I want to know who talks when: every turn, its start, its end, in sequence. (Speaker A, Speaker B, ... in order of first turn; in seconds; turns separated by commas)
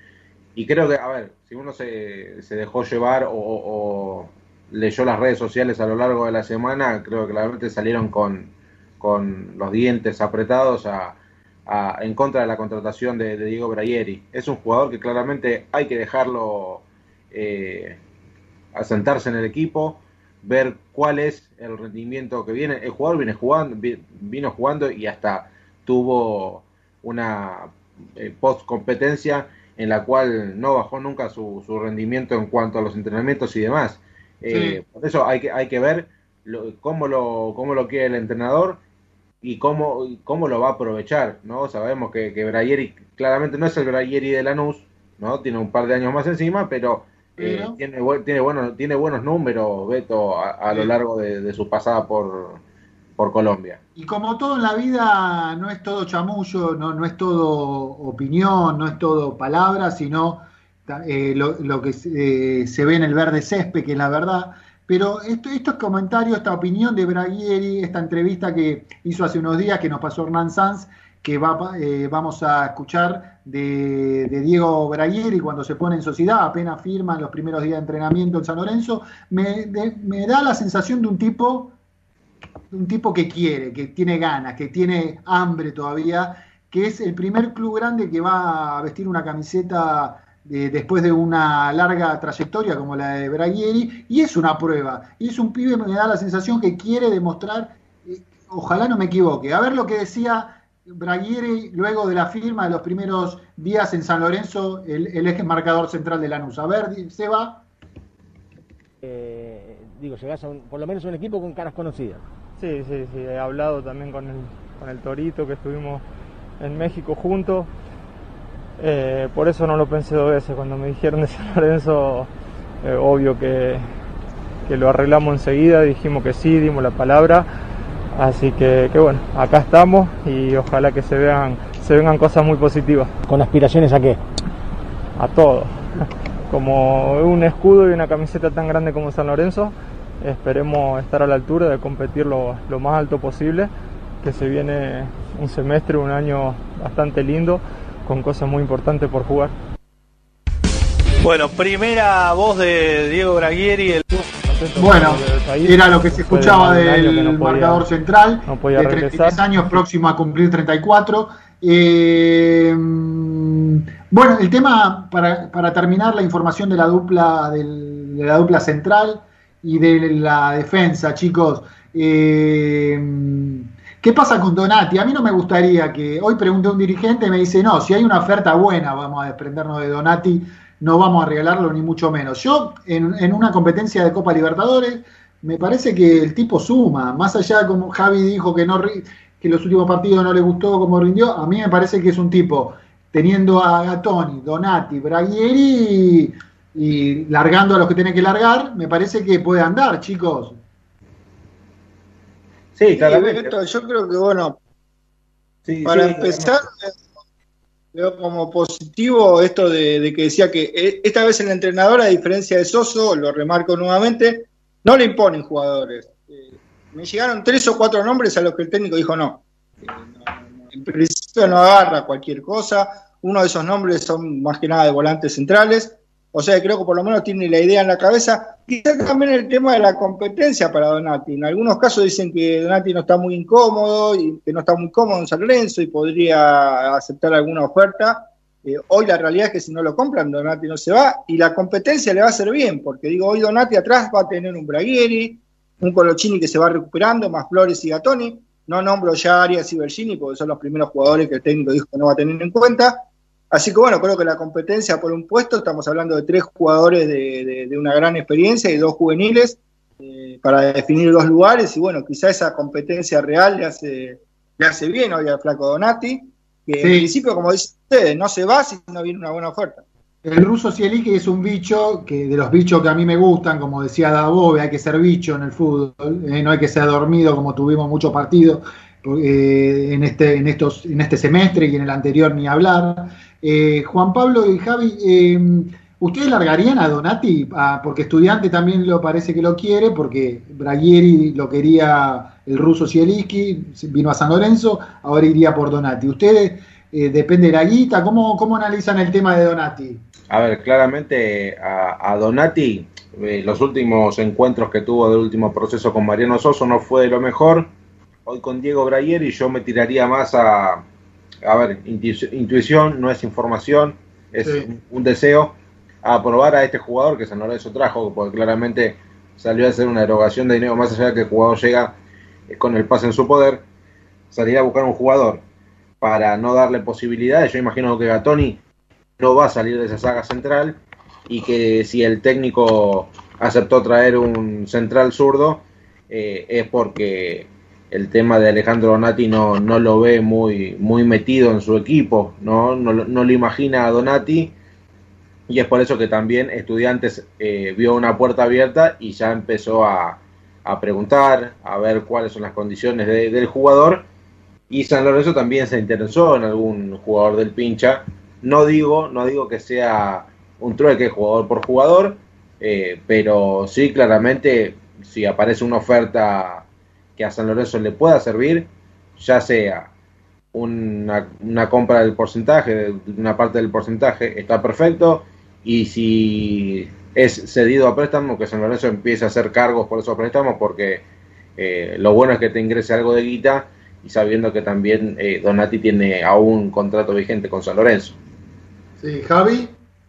Speaker A: 0.5-18.0, Speaker A: 18.7-38.8, Speaker B: 34.5-34.8, Speaker A: 39.4-52.6, Speaker B: 47.4-47.8, Speaker A: 53.2-53.8, Speaker B: 54.0-81.7, Speaker B: 82.7-107.6, Speaker C: 109.0-112.2, Speaker D: 112.6-116.0, Speaker D: 116.6-117.7, Speaker D: 118.8-122.3, Speaker D: 122.8-123.9, Speaker D: 124.7-127.5, Speaker D: 128.2-133.1, Speaker C: 133.2-134.2, Speaker D: 135.2-135.8, Speaker D: 136.5-143.7, Speaker D: 144.2-149.5, Speaker E: 151.2-154.0, Speaker D: 154.4-157.9, Speaker B: 154.8-200.6, Speaker D: 158.4-159.8, Speaker A: 202.8-203.6, Speaker F: 202.9-204.6, Speaker A: 205.7-206.5, Speaker F: 205.8-206.9, Speaker F: 207.9-269.8, Speaker B: 266.8-267.1, Speaker B: 270.2-300.0, Speaker A: 300.3-307.7, Speaker A: 308.2-310.8, Speaker A: 311.4-321.9, Speaker B: 314.4-314.7, Speaker A: 322.5-323.6, Speaker A: 324.3-325.4, Speaker A: 326.0-328.6, Speaker A: 329.2-344.5, Speaker A: 345.5-354.0, Speaker A: 354.7-369.9, Speaker A: 370.5-381.0, Speaker A: 381.6-388.2, Speaker B: 389.0-389.7